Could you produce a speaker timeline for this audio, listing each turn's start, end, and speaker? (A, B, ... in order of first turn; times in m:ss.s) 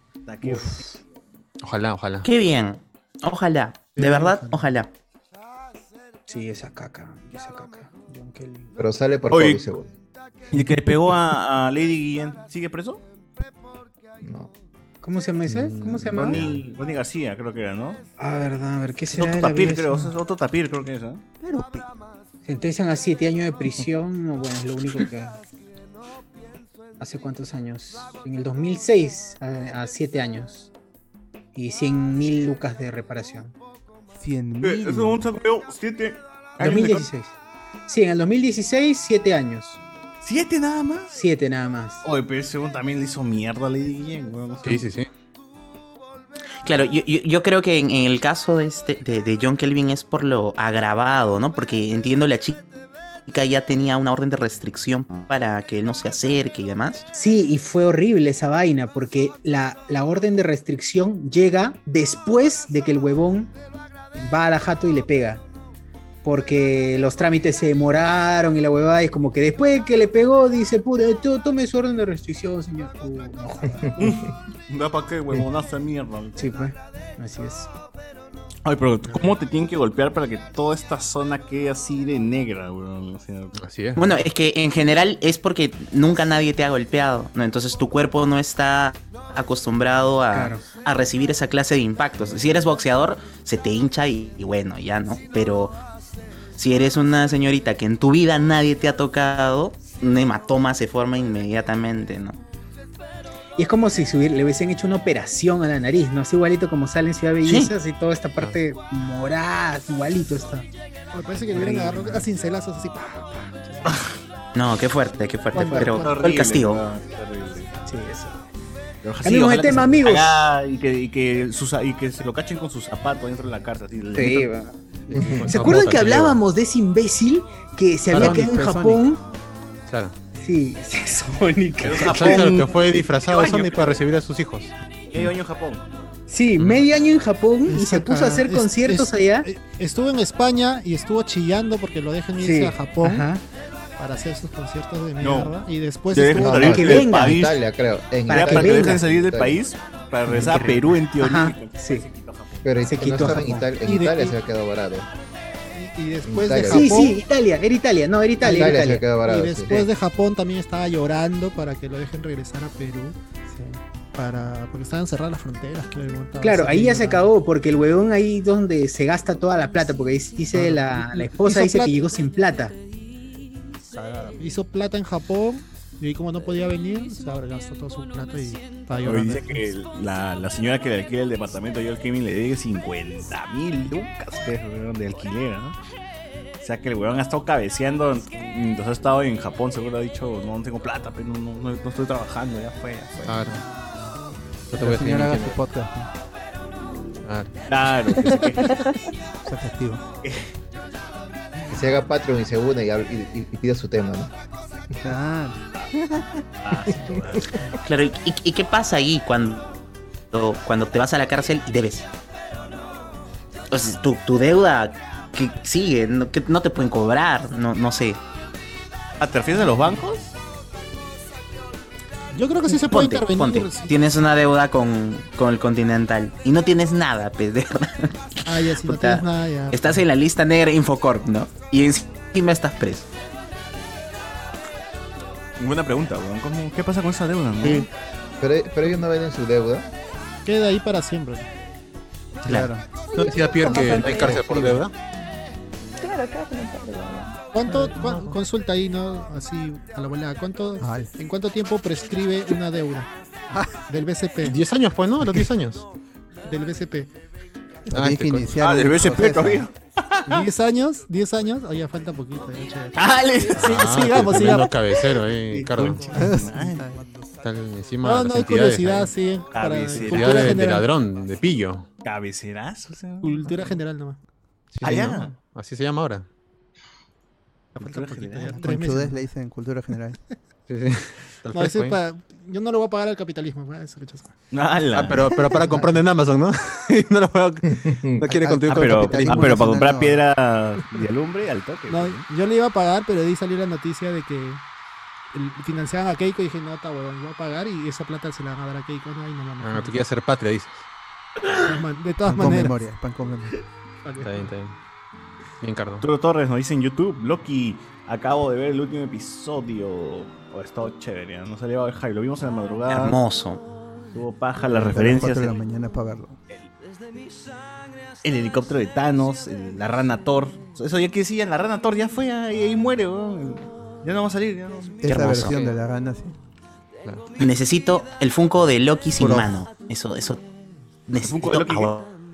0:00.3-0:00.9 A
0:01.6-0:02.2 B
0:02.2-0:04.9 C
0:03.9-0:04.7 D
0:06.3-0:08.7 E
0:08.8-0:09.9 F
0:09.3-0:09.6 A
0:10.5-0:13.0 A
0:14.2-0:14.5 F
0:15.0-0:16.4 E
0:15.5-0:16.6 F
0:16.1-0:18.0 A
0:18.2-0:20.1 E
0:19.1-0:21.2 A
0:21.4-0:21.9 G
0:22.4-0:25.4 E
0:27.0-0:30.7 E
0:31.5-0:33.5 E
0:34.1-0:35.2 G
0:34.6-0:37.1 A
0:36.6-0:37.3 E
0:37.9-0:39.8 E
0:40.2-0:41.1 A
0:41.1-0:42.0 E
0:42.0-0:44.8 A
0:44.6-0:45.1 B
0:46.6-0:52.6 C
0:53.3-0:57.0 C
0:57.1-1:03.5 E
1:04.2-1:05.4 E
1:06.2-1:13.9 E
1:14.0-1:16.4 A
1:16.4-1:17.7 E
1:18.6-1:23.5 A
1:23.5-1:24.1 B
1:24.0-1:35.8 C
1:30.3-1:30.6 E
1:36.6-1:42.4 C
1:43.6-1:50.7 E
1:47.4-1:47.7 C
1:51.1-1:54.0 D
1:51.4-1:52.2 E
1:54.5-1:56.8 C
1:55.5-1:56.4 D
1:55.6-1:55.9 E
1:55.8-1:57.7 A
1:57.9-1:58.4 E
1:59.0-2:04.5 A
1:59.2-2:00.3 E
2:04.1-2:04.7 E
2:05.1-2:05.5 F
2:05.3-2:06.4 B
2:05.5-2:09.2 E
2:08.1-2:08.5 B
2:08.1-2:09.0 G
2:09.9-2:10.1 B
2:10.4-2:12.6 E
2:11.8-2:14.0 A
2:11.8-2:14.7 B
2:15.1-2:15.8 A
2:16.3-2:19.5 E
2:16.6-2:16.8 B
2:17.7-2:23.3 D
2:22.4-2:23.4 E
2:24.0-2:26.9 D
2:25.2-2:25.5 A
2:26.1-2:27.6 A
2:26.3-2:29.6 F
2:26.6-2:27.4 E
2:28.3-2:29.0 E
2:28.3-2:32.7 A
2:30.3-2:32.0 E
2:32.6-2:35.1 F
2:32.8-2:33.7 E
2:33.8-2:34.3 D
2:35.7-2:37.2 D
2:36.2-2:37.1 F
2:36.6-2:39.0 E
2:38.4-2:39.9 F
2:39.2-2:43.2 D
2:43.5-2:43.8 E
2:44.1-2:47.3 D
2:46.4-2:52.7 E
2:50.5-2:51.9 D
2:53.9-2:54.5 G
2:54.4-2:59.7 D
2:59.0-3:05.8 A
3:06.6-3:13.2 A
3:13.2-3:13.6 B
3:14.7-3:15.6 B
3:14.8-3:16.1 G
3:17.2-3:17.5 B
3:17.7-3:19.0 A
3:18.3-3:19.0 H
3:19.4-3:20.0 G
3:20.2-3:20.5 A
3:21.7-3:24.3 F
3:25.0-3:26.2 G
3:26.6-3:27.7 A
3:27.7-3:29.7 C
3:30.3-3:32.1 C
3:33.7-3:38.2 C
3:39.2-3:40.3 A
3:39.5-3:39.9 D
3:42.3-3:44.0 D
3:42.7-3:53.1 C
3:48.4-3:50.0 D
3:55.6-3:57.9 A
3:58.4-3:59.9 F
4:00.4-4:01.5 D
4:02.4-4:02.8 G
4:03.1-4:04.5 H
4:03.1-4:04.9 B
4:03.8-4:04.8 G
4:06.0-4:07.4 H
4:07.5-4:13.1 D
4:07.7-4:08.4 B
4:10.8-4:11.1 G
4:13.9-4:14.6 D
4:14.4-4:15.8 B
4:16.4-4:17.1 D
4:17.9-4:19.7 G
4:17.9-4:18.5 B
4:18.6-4:20.4 A
4:20.2-4:23.0 D
4:23.0-4:24.6 A
4:23.5-4:24.9 D
4:23.6-4:26.1 B
4:25.5-4:26.8 A
4:26.1-4:27.1 G
4:27.4-4:29.1 B
4:28.0-4:30.9 D
4:29.5-4:30.6 A
4:30.0-4:31.9 B
4:32.0-4:33.8 A
4:33.2-4:34.2 D
4:34.7-4:35.2 G
4:34.8-4:35.3 A
4:34.8-4:36.2 B
4:37.7-4:39.2 D
4:37.8-4:38.7 A
4:38.6-4:40.2 G
4:40.7-4:42.0 B
4:41.5-4:44.3 D
4:44.5-4:45.4 A
4:44.9-4:49.7 B
4:45.6-4:45.9 F
4:47.7-4:48.3 F
4:48.3-4:50.2 G
4:48.7-4:52.2 A
4:51.9-4:54.6 D
4:55.3-5:00.0 D
4:59.6-5:00.8 B
5:01.6-5:02.8 D
5:02.2-5:03.5 G
5:04.0-5:04.5 D
5:04.2-5:04.7 B
5:05.6-5:06.1 B
5:06.0-5:13.2 A
5:12.9-5:13.6 C
5:14.1-5:15.5 A
5:14.7-5:16.4 G
5:18.2-5:25.5 A
5:25.0-5:26.3 G
5:25.0-5:25.6 C
5:27.4-5:30.4 C
5:29.2-5:29.5 G
5:31.1-5:32.1 C
5:31.2-5:31.9 A